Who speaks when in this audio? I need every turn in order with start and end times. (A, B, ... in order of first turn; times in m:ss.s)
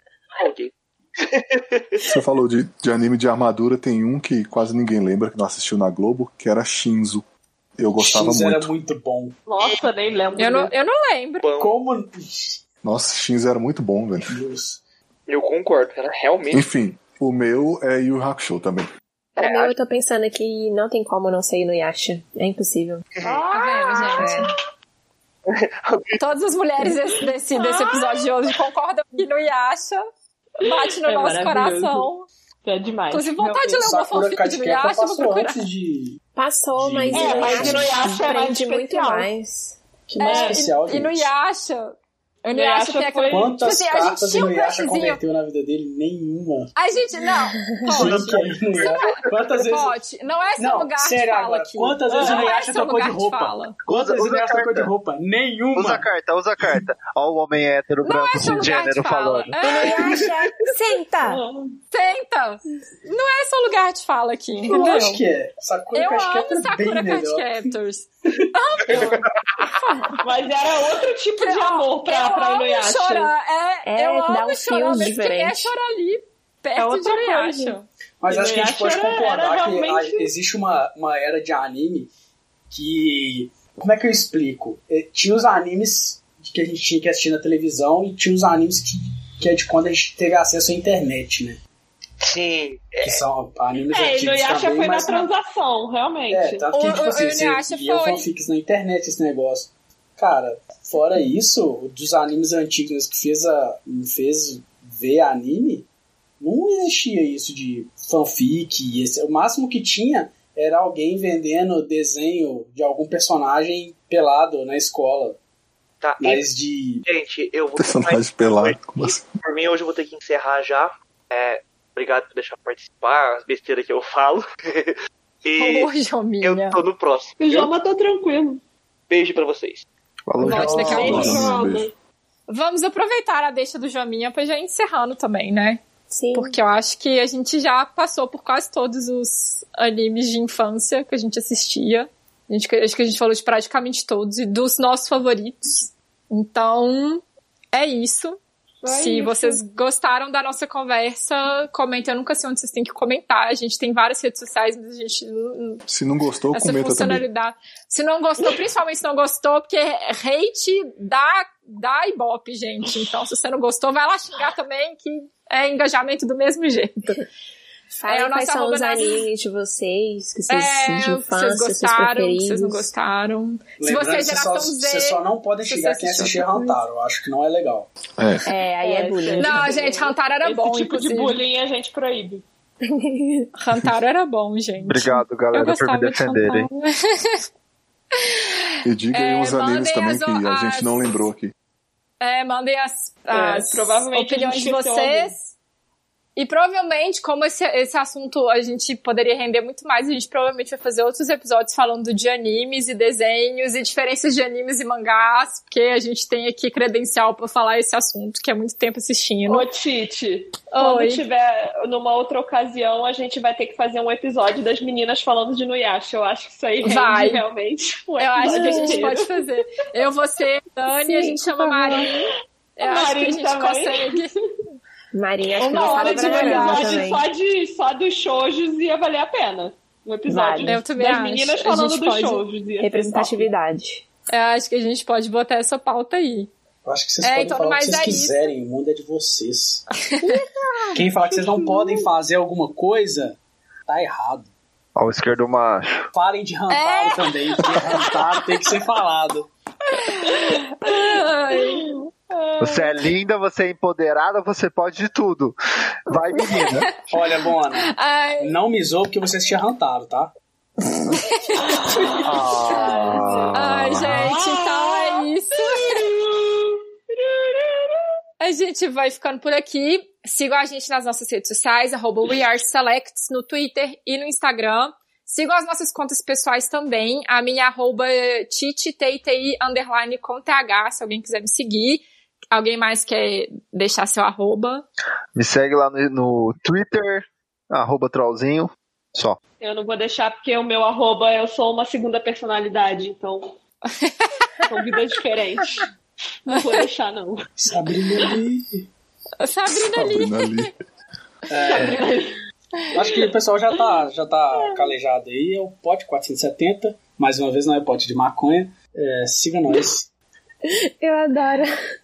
0:00.4-0:02.0 A
0:02.0-0:07.2 B
0:07.8-0:08.7 B
0:08.0-0:09.4 C
0:09.5-0:10.7 D
0:10.4-0:11.4 E
0:11.4-0:11.7 A
0:11.6-0:12.6 C
0:12.8-0:14.4 B
0:14.3-0:14.8 C
0:15.3-0:16.6 A
0:16.5-0:18.9 B
0:19.4-0:19.7 A
0:19.4-0:23.0 F
0:23.2-0:23.4 A
0:23.2-0:24.4 D
0:23.5-0:24.5 E
0:24.1-0:24.5 F
0:25.5-0:26.2 A
0:26.2-0:30.0 E
0:27.6-0:28.0 D
0:30.6-0:32.2 E
0:30.6-0:32.1 D
0:32.6-0:33.9 D
0:33.1-0:35.6 E
0:33.8-0:36.2 C
0:36.4-0:39.8 F
0:36.8-0:38.0 C
0:37.1-0:39.3 D
0:40.1-0:41.3 C
0:40.2-0:45.2 E
0:40.2-0:40.6 D
0:42.5-0:43.6 D
0:43.3-0:46.7 C
0:46.8-0:53.8 E
0:47.9-0:50.0 C
0:48.0-0:49.5 A
0:50.6-0:56.1 C
0:52.1-0:52.5 D
0:53.9-0:54.9 A
0:55.7-0:59.6 G
0:58.0-1:00.2 E
0:59.6-1:01.4 F
1:01.2-1:01.7 D
1:01.9-1:05.2 E
1:04.7-1:07.6 C
1:05.9-1:10.2 E
1:08.3-1:09.2 C
1:08.9-1:09.7 A
1:10.2-1:13.3 D
1:11.4-1:17.8 E
1:13.8-1:15.7 F
1:16.8-1:20.3 D
1:18.2-1:22.1 C
1:22.7-1:31.6 C
1:32.2-1:33.2 A
1:33.0-1:35.3 C
1:33.9-1:36.6 D
1:36.3-1:45.9 C
1:36.7-1:38.2 E
1:46.4-1:55.4 C
1:56.0-1:56.4 A
1:56.2-1:57.0 C
1:57.0-2:07.7 A
1:57.8-1:59.4 B
2:05.6-2:06.8 E
2:07.4-2:08.6 D
2:09.1-2:09.8 A
2:10.3-2:11.4 G
2:10.4-2:11.9 D
2:10.4-2:11.5 E
2:10.6-2:11.2 C
2:10.8-2:11.9 B
2:12.5-2:35.8 E
2:16.1-2:16.6 F
2:28.8-2:29.6 D
2:35.9-2:37.2 B
2:36.5-2:47.0 E
2:47.9-2:52.9 F
2:48.1-2:49.2 E
2:50.5-2:56.7 E
2:53.8-2:57.9 C
2:58.2-2:58.5 B
2:58.4-2:59.8 F
2:58.8-3:02.4 D
2:59.4-3:01.4 E
3:02.8-3:03.5 F
3:03.6-3:07.4 E
3:04.8-3:06.7 G
3:08.2-3:08.5 E
3:08.8-3:11.5 B
3:09.1-3:11.2 E
3:12.2-3:15.5 E
3:13.3-3:15.3 D
3:16.4-3:29.6 E
3:29.4-3:39.4 D
3:30.7-3:31.2 E
3:36.8-3:37.4 E
3:38.2-3:42.1 E
3:38.4-3:39.1 F
3:41.1-3:42.1 F
3:41.8-3:42.1 D
3:42.8-3:44.3 E
3:42.8-3:44.2 D
3:45.1-3:47.2 F
3:45.6-3:53.5 D
3:45.6-3:47.0 E
3:50.3-3:50.8 F
3:50.6-3:52.4 E
3:52.8-3:54.0 F
3:54.3-3:56.5 E
3:56.8-3:59.8 C
3:57.2-3:58.5 E
4:00.9-4:04.5 C
4:01.3-4:01.9 D
4:05.0-4:06.1 G
4:06.1-4:09.5 C
4:06.7-4:08.7 E
4:09.9-4:11.9 E
4:10.4-4:13.0 D
4:12.6-4:15.5 G
4:16.1-4:17.0 G
4:16.4-4:16.8 E
4:17.1-4:20.3 C
4:17.8-4:18.5 E
4:21.3-4:22.2 E
4:22.2-4:24.2 G
4:22.8-4:26.0 E
4:23.0-4:23.4 D
4:24.0-4:28.0 D
4:28.4-4:44.8 E
4:45.3-4:49.4 G
4:49.6-4:53.6 D
4:54.0-4:54.6 E
4:54.7-4:55.9 D
4:56.4-4:57.5 D
4:57.6-4:58.8 C
4:59.4-5:00.7 E
4:59.7-5:00.7 B
5:01.5-5:02.1 C
5:01.6-5:02.4 D
5:02.9-5:10.1 C
5:11.0-5:11.7 F